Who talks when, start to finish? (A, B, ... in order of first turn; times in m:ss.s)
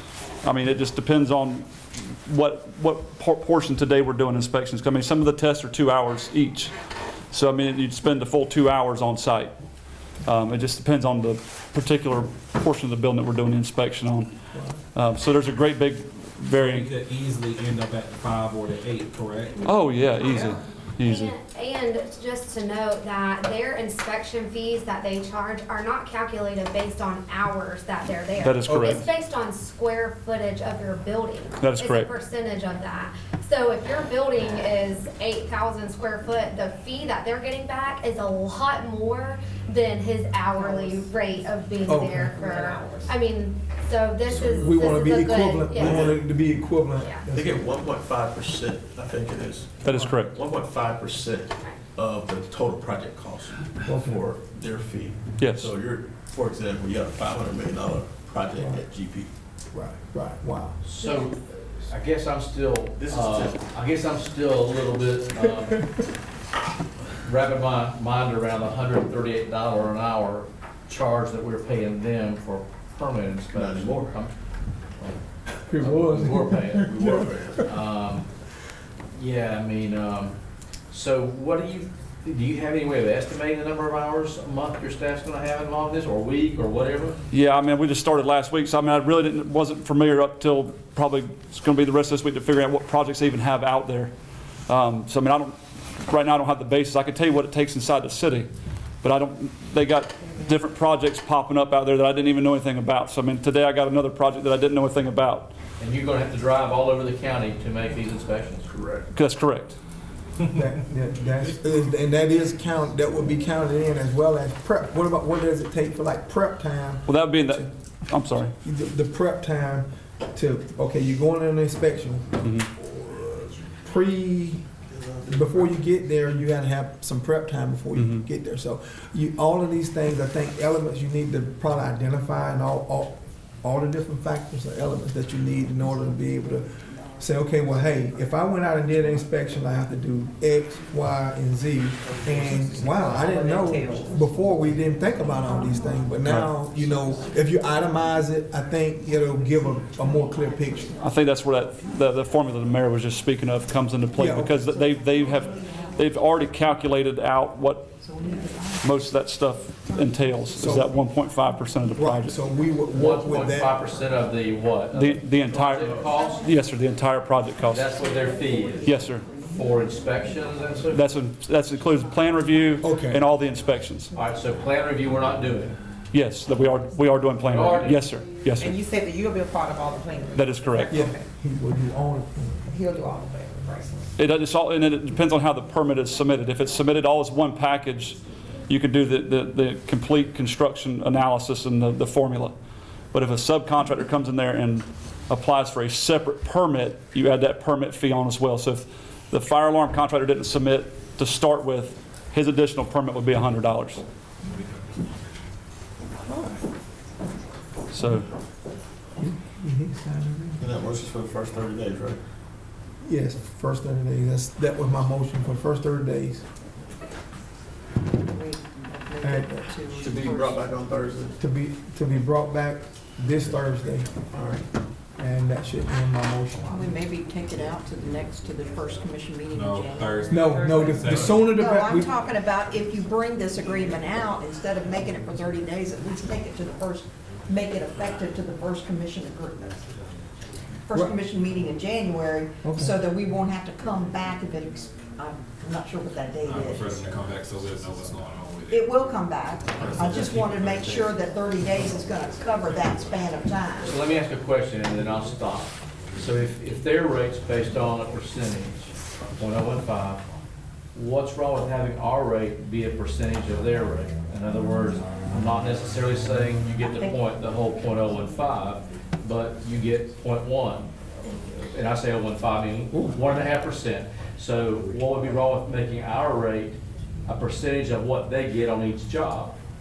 0:00.4-0:06.7 A
0:07.3-0:09.5 A
0:10.2-0:14.3 A
0:14.9-0:16.9 A
0:16.6-0:19.7 B
0:19.6-0:21.3 A
0:21.0-0:46.1 C
0:28.4-0:29.1 A
0:28.6-0:29.0 D
0:31.6-0:32.1 A
0:41.8-0:42.4 D
0:44.3-0:47.7 D
0:45.8-0:46.2 E
0:47.0-0:47.2 C
0:47.3-0:59.3 E
0:49.8-0:50.4 A
0:53.8-0:54.2 D
0:55.4-0:55.7 A
0:58.5-0:58.8 D
0:59.7-1:00.8 D
1:00.8-1:05.8 F
1:03.0-1:03.6 E
1:07.2-1:14.3 F
1:13.5-1:14.1 E
1:15.7-1:17.5 D
1:15.8-1:18.2 F
1:16.9-1:17.7 E
1:19.1-1:20.4 F
1:20.9-1:27.2 F
1:27.3-1:34.1 A
1:34.7-1:38.5 A
1:39.0-1:45.5 A
1:45.8-1:48.7 F
1:48.7-1:49.1 E
1:49.1-1:49.8 A
1:50.5-1:57.7 D
1:57.1-1:58.5 A
1:58.6-2:04.6 D
2:02.4-2:02.7 A
2:04.9-2:05.7 E
2:05.2-2:30.9 D
2:07.9-2:08.2 A
2:23.7-2:24.0 G
2:26.2-2:26.5 A
2:31.0-2:37.9 A
2:34.2-2:34.6 D
2:38.8-2:42.4 A
2:40.6-2:40.9 D
2:41.9-2:43.8 D
2:42.9-2:46.4 F
2:44.9-2:47.9 A
2:47.7-2:51.0 F
2:48.8-2:49.3 A
2:50.9-2:54.1 A
2:52.8-2:53.2 D
2:54.1-2:55.8 F
2:56.1-2:58.8 A
2:57.5-2:58.0 F
2:58.6-3:01.2 H
3:00.3-3:01.0 A
3:00.9-3:02.7 D
3:02.7-3:04.1 H
3:04.2-3:12.5 A
3:13.1-3:24.0 A
3:24.5-3:25.4 B
3:27.9-3:28.3 A
3:29.2-3:30.7 D
3:30.6-3:32.2 E
3:33.0-3:36.4 D
3:38.2-3:40.6 G
3:39.2-3:39.8 D
3:39.9-3:41.4 E
3:41.4-3:44.2 D
3:44.3-3:44.7 E
3:45.2-3:47.0 D
3:46.7-3:50.7 G
3:49.5-3:51.4 B
3:50.3-3:52.1 D
3:51.4-3:59.8 G
4:00.8-4:07.0 G
4:02.6-4:03.0 D
4:06.4-4:08.9 B
4:08.7-4:14.0 G
4:09.7-4:11.1 B
4:13.8-4:20.2 F
4:20.9-4:39.6 F